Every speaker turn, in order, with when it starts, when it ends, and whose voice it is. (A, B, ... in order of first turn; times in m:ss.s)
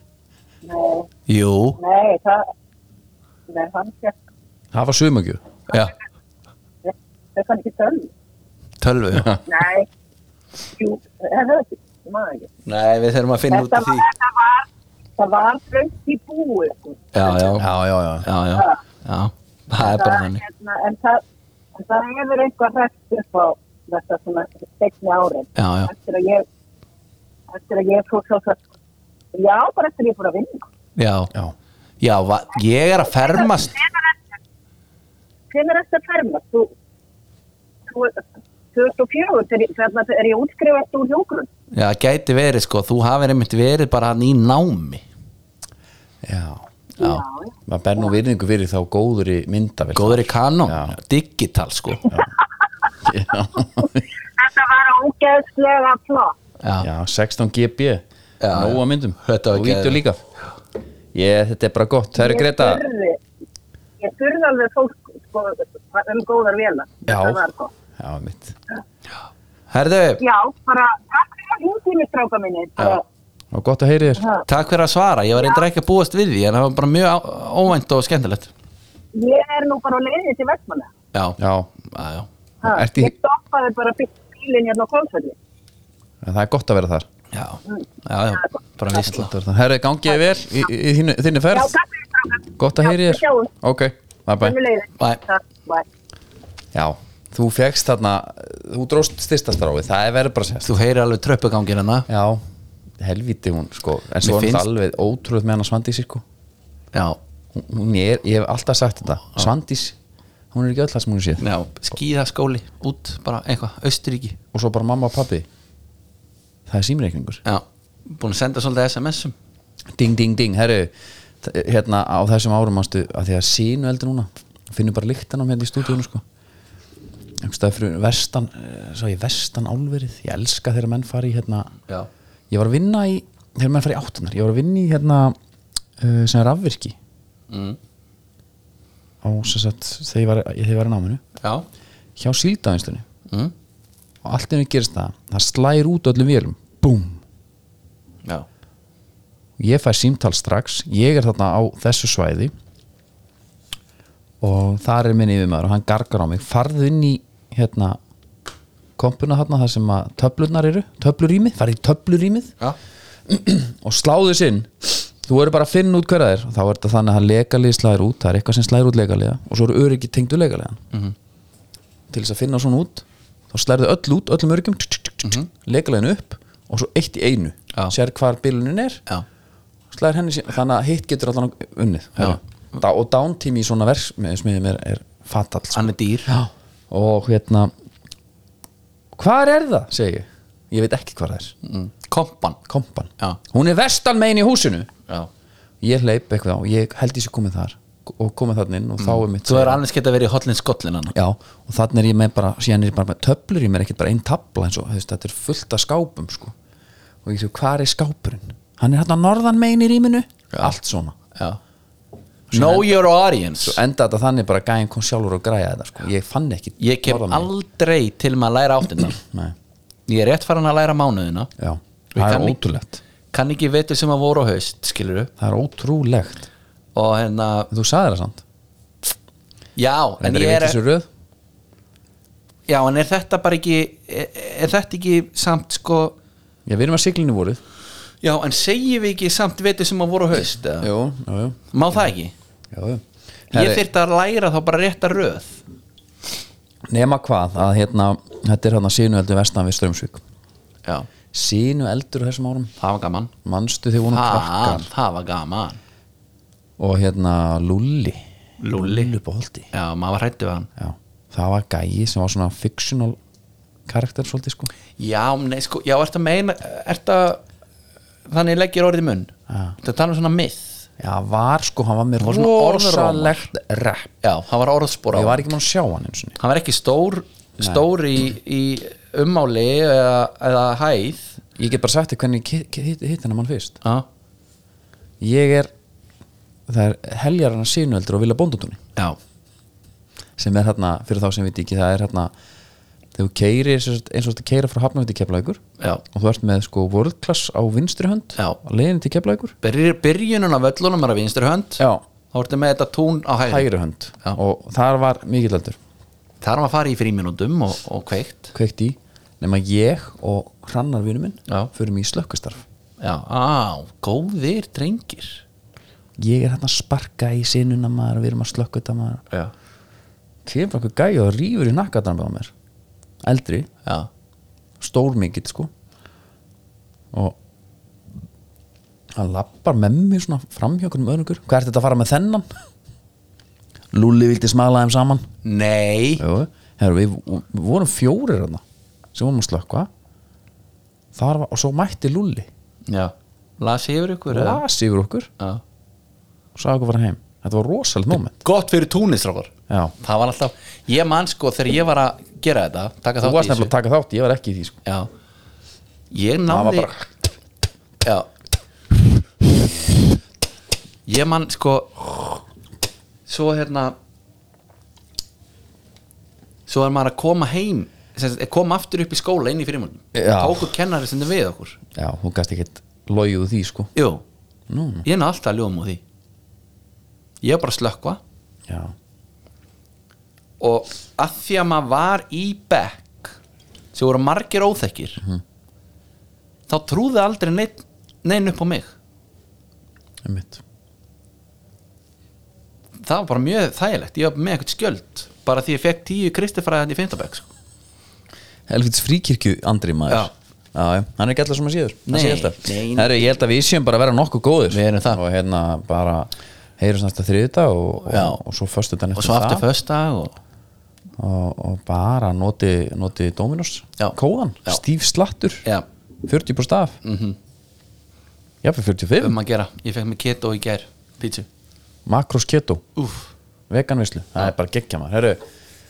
0:00.6-0:01.1 A
0:01.3-0:01.8 B
0:01.8-0:02.5 A
0:03.5-0:04.1 A
0:04.7-0:05.4 C
0:06.8-0:08.1 A
0:08.8-0:09.4 B
0:09.5-0:09.9 A
0:10.7-0:12.5 A
0:12.7-0:14.1 B
0:13.5-0:17.6 A
0:17.1-0:17.7 B
0:17.6-0:18.3 C
0:18.2-0:20.4 B
0:19.8-0:21.2 A
0:21.8-0:26.5 A
0:25.6-0:25.9 B
0:27.5-0:28.6 A
0:29.3-0:30.7 A
0:31.0-0:31.3 B
0:32.0-0:33.8 B
0:33.2-0:34.2 A
0:35.5-0:36.7 A
0:37.9-0:41.5 A
0:41.7-0:45.0 B
0:46.2-0:46.6 C
0:47.0-0:47.2 B
0:47.0-0:47.6 A
0:47.7-0:51.0 C
0:50.0-0:52.1 B
0:53.0-0:54.0 C
0:54.4-0:56.4 A
0:56.6-0:56.9 B
0:56.8-1:00.2 C
0:58.4-1:00.0 B
1:01.1-1:02.8 C
1:02.2-1:03.2 A
1:04.0-1:07.7 A
1:07.1-1:07.4 C
1:08.0-1:08.6 C
1:09.7-1:10.2 B
1:10.2-1:13.0 A
1:13.5-1:14.2 C
1:14.2-1:14.5 A
1:14.5-1:18.5 B
1:15.4-1:15.6 A
1:19.1-1:20.9 A
1:21.1-1:22.3 B
1:21.4-1:21.7 C
1:22.6-1:25.4 A
1:22.6-1:23.1 C
1:26.2-1:27.1 C
1:27.3-1:29.3 B
1:29.0-1:31.8 C
1:31.5-1:33.5 A
1:32.6-1:34.6 C
1:34.4-1:35.9 A
1:36.7-1:40.7 C
1:40.6-1:42.1 B
1:42.1-1:42.4 C
1:43.0-1:46.2 C
1:44.2-1:44.7 B
1:46.9-1:47.2 B
1:47.5-1:50.0 C
1:50.5-1:51.5 C
1:51.4-1:54.4 B
1:54.5-1:55.5 C
1:56.7-1:57.4 C
1:57.4-1:59.4 B
2:00.0-2:06.2 C
2:07.4-2:11.7 C
2:12.5-2:15.4 C
2:16.0-2:17.0 C
2:17.5-2:17.8 B
2:19.2-2:21.2 C
2:21.4-2:21.7 B
2:22.2-2:23.1 C
2:24.2-2:27.2 C
2:29.6-2:32.5 C
2:34.4-2:38.0 C
2:39.0-2:42.5 C
2:43.3-2:50.8 C
2:52.1-2:59.0 C
2:55.2-2:55.5 B
2:59.9-3:07.7 C
3:05.7-3:06.3 B
3:09.1-3:11.6 C
3:11.6-3:12.6 B
3:12.7-3:14.9 C
3:15.8-3:19.8 C
3:19.0-3:21.1 B
3:21.1-3:26.6 C
3:27.2-3:31.2 C
3:32.5-3:33.0 C
3:32.5-3:33.8 B
3:33.6-3:37.5 C
3:36.8-3:39.2 B
3:39.2-3:39.6 C
3:40.1-3:41.5 B
3:41.6-3:43.0 C
3:42.1-3:42.6 B
3:43.3-3:45.3 B
3:45.4-3:46.5 C
3:47.0-3:47.7 B
3:47.7-3:48.4 C
3:49.8-3:50.8 B
3:50.2-3:51.1 C
3:52.7-3:56.2 B
3:56.7-3:57.6 C
3:58.2-4:00.9 B
4:00.8-4:01.6 C
4:01.7-4:02.3 B
4:02.7-4:03.8 C
4:03.5-4:05.6 B
4:06.9-4:10.2 C
4:11.3-4:12.7 C
4:12.8-4:13.3 B
4:13.4-4:14.9 C
4:14.1-4:15.8 B
4:16.8-4:19.7 C
4:18.6-4:19.1 B
4:19.7-4:20.7 B
4:20.8-4:23.2 C
4:23.9-4:24.7 C
4:25.0-4:27.4 B
4:28.3-4:30.8 B
4:29.5-4:29.8 C
4:31.0-4:34.1 C
4:32.2-4:33.5 B
4:34.2-4:35.4 B
4:35.1-4:36.4 C
4:36.4-4:41.4 B
4:41.6-4:43.8 C
4:45.2-4:45.7 C
4:46.7-4:48.8 C
4:50.4-4:52.3 C
4:53.2-4:59.6 C
4:59.6-5:03.7 B
5:03.5-5:05.8 C
5:06.4-5:08.5 B
5:08.5-5:12.6 C
5:13.0-5:15.4 B
5:16.2-5:19.2 C
5:20.4-5:22.5 C
5:23.2-5:23.7 C
5:24.8-5:25.7 C
5:29.2-5:32.5 C
5:33.9-5:35.3 C
5:35.4-5:36.2 B
5:36.2-5:38.6 C
5:39.1-5:39.9 C
5:41.1-5:42.5 C
5:42.9-5:44.6 B
5:44.3-5:45.3 C
5:46.6-5:48.4 C
5:48.4-5:53.7 B
5:49.7-5:50.0 C
5:53.2-5:54.8 C
5:56.1-5:56.9 B
5:56.5-5:57.1 C
5:58.0-5:58.3 B
6:01.1-6:02.4 B
6:03.3-6:04.0 B
6:06.7-6:11.8 B
6:10.1-6:10.7 C
6:12.0-6:13.9 C
6:14.0-6:14.2 B
6:14.7-6:15.1 C
6:15.0-6:16.0 B
6:17.4-6:18.2 B
6:18.7-6:18.9 C
6:20.6-6:23.3 B
6:23.9-6:25.2 B
6:26.7-6:28.9 B
6:30.2-6:30.6 C
6:33.0-6:37.5 B
6:38.7-6:49.7 C
6:42.1-6:43.3 B
6:44.7-6:45.2 B
6:48.1-6:48.4 B
6:49.2-6:50.4 B
6:51.2-6:55.7 C
6:54.0-6:54.8 B
6:56.2-6:57.0 C
6:57.0-6:57.4 B
6:58.6-6:59.4 C
6:59.2-7:01.5 B
7:02.1-7:02.8 C
7:03.0-7:03.3 B
7:03.7-7:05.4 C